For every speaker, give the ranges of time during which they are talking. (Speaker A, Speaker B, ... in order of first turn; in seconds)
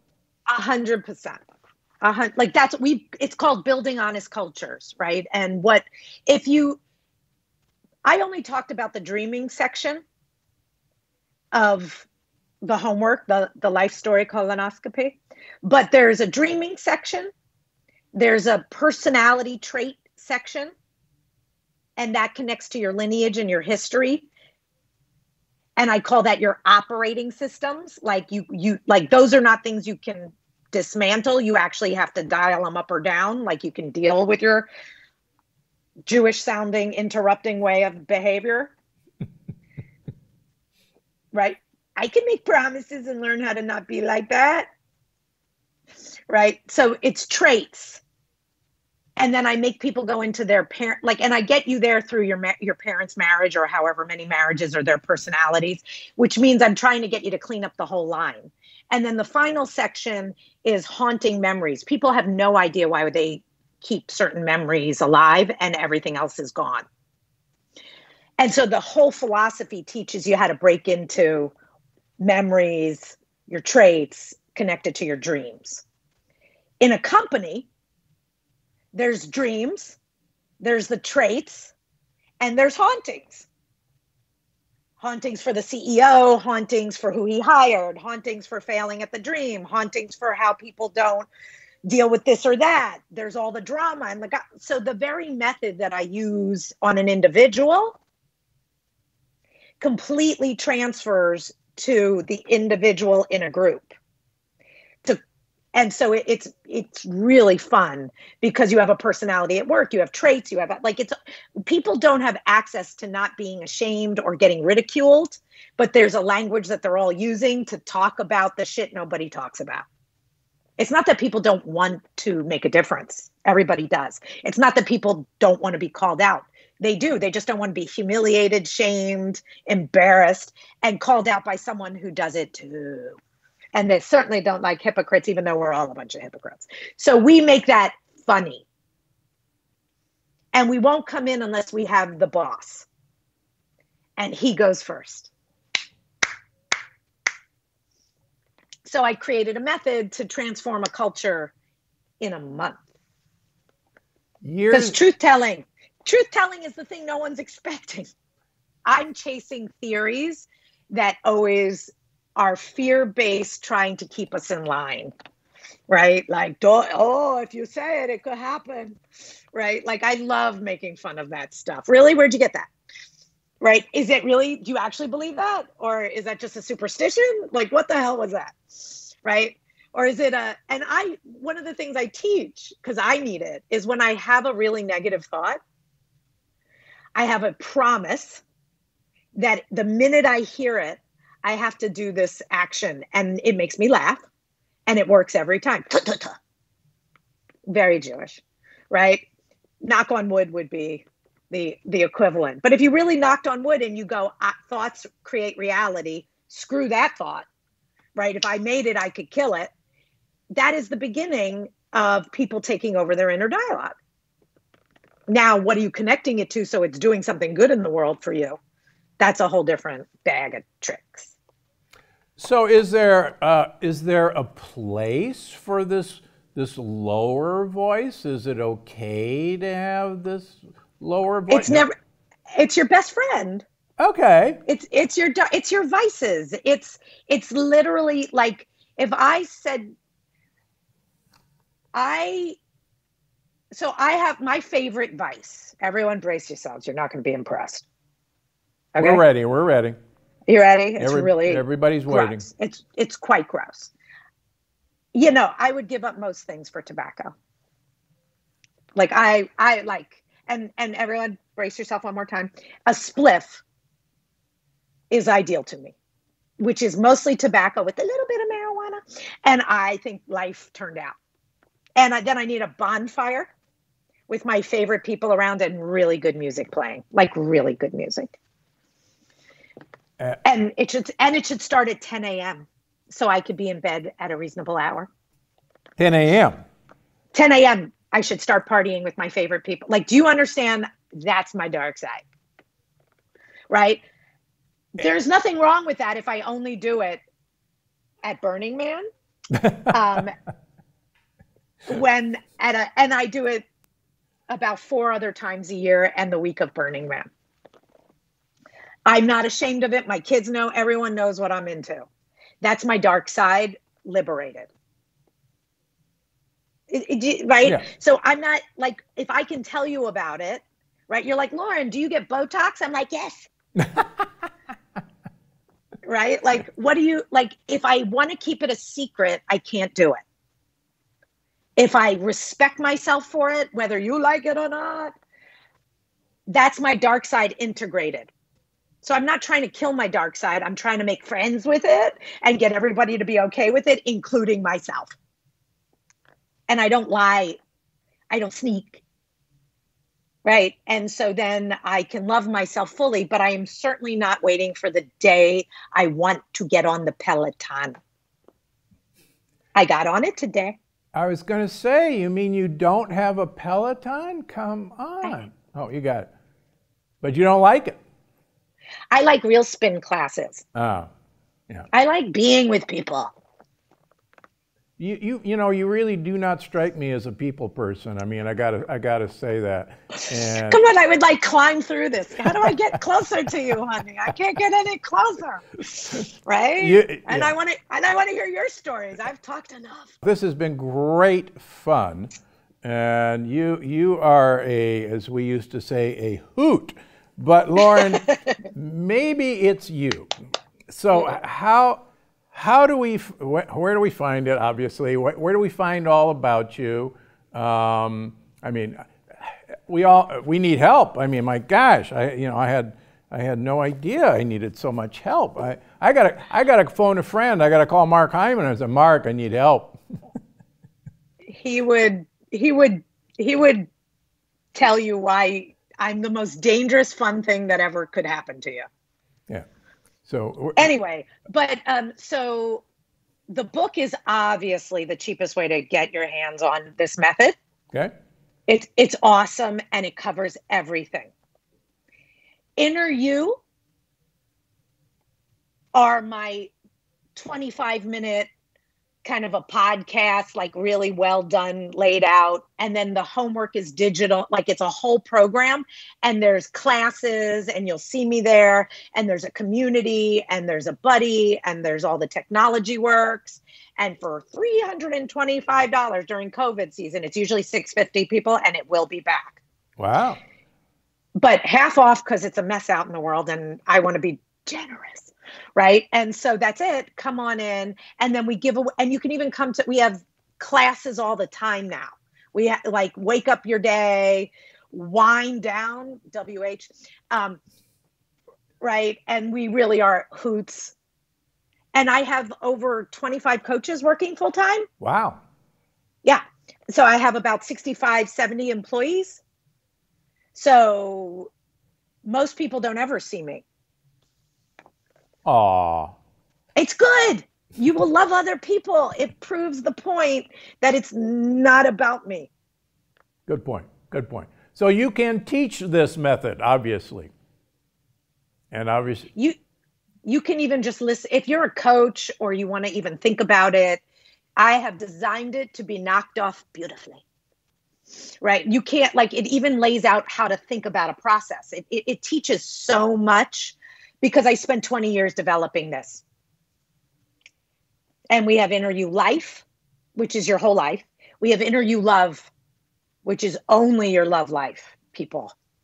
Speaker A: 0.5-1.4, 2.0-6.8, 8.1-10.0, 11.5-12.1, 12.6-17.3, 18.1-20.7, 22.0-24.3, 25.8-34.7, 36.0-38.7, 41.3-44.7, 46.3-48.0, 49.2-66.8, 68.4-71.5, 72.2-75.8, 76.8-77.7, 78.9-80.0, 80.6-81.7, 82.4-83.5, 85.0-91.3, 91.9-98.0, 99.8-103.9, 105.7-111.1, 111.6-119.8, 120.8-133.2, 133.8-138.7, 140.5-142.9, 144.2-145.3, 148.9-151.5, 152.2-152.8, 154.7-158.1, 158.8-165.1, 165.9-169.0, 169.5-172.7, 173.6-185.6, 187.2-188.4, 189.3-194.2, 194.9-196.4, 197.7-199.2, 199.8-207.5, 208.2-209.7, 210.5-213.9, 215.3-218.6, 219.2-221.3, 231.5-231.9, 232.6-233.6, 234.7-239.9, 241.9-242.6, 243.7-247.9, 248.9-249.2, 250.5-253.9, 255.2-257.3, 258.9-263.6, 265.1-265.9, 266.6-271.1, 272.0-273.5, 274.3-278.3, 280.4-285.1, 287.3-292.2, 293.7-294.0, 295.0-297.2, 298.2-299.1, 299.9-300.3, 301.9-303.6, 304.5-307.3, 309.1-312.1, 312.6-314.7, 316.9-323.5, 326.0-330.2, 331.8-335.1, 336.5-338.3, 339.0-345.2, 346.7-347.6, 348.3-349.0, 350.4-358.0, 359.8-360.8, 369.1-370.6, 371.9-373.3, 380.7-390.2, 421.5-423.9, 424.7-428.9, 430.8-432.8, 433.5-437.6, 438.7-441.3, 442.8-443.6, 445.9-446.7, 447.4-448.5, 449.2-469.6, 471.4-487.6, 488.8-490.9, 491.9-494.9, 496.2-499.4, 500.5-501.5, 502.2-503.6, 506.8-512.5, 520.2-524.0, 524.6-527.2, 528.4-536.2, 538.3-539.6, 540.2-542.5, 543.2-545.5
Speaker B: 154.4-155.0, 222.4-231.9, 234.0-234.6, 249.0-250.0, 251.0-252.5, 286.0-286.6, 299.5-299.9, 317.6-317.9, 323.8-324.3, 361.1-366.3, 367.2-368.0, 370.7-371.1, 375.0-380.8, 382.5-382.8, 386.8-387.5, 390.2-392.3, 392.8-400.3, 400.9-420.0, 430.2-430.9, 470.0-470.4, 495.0-495.4, 505.5-506.2, 513.5-517.3, 518.7-519.3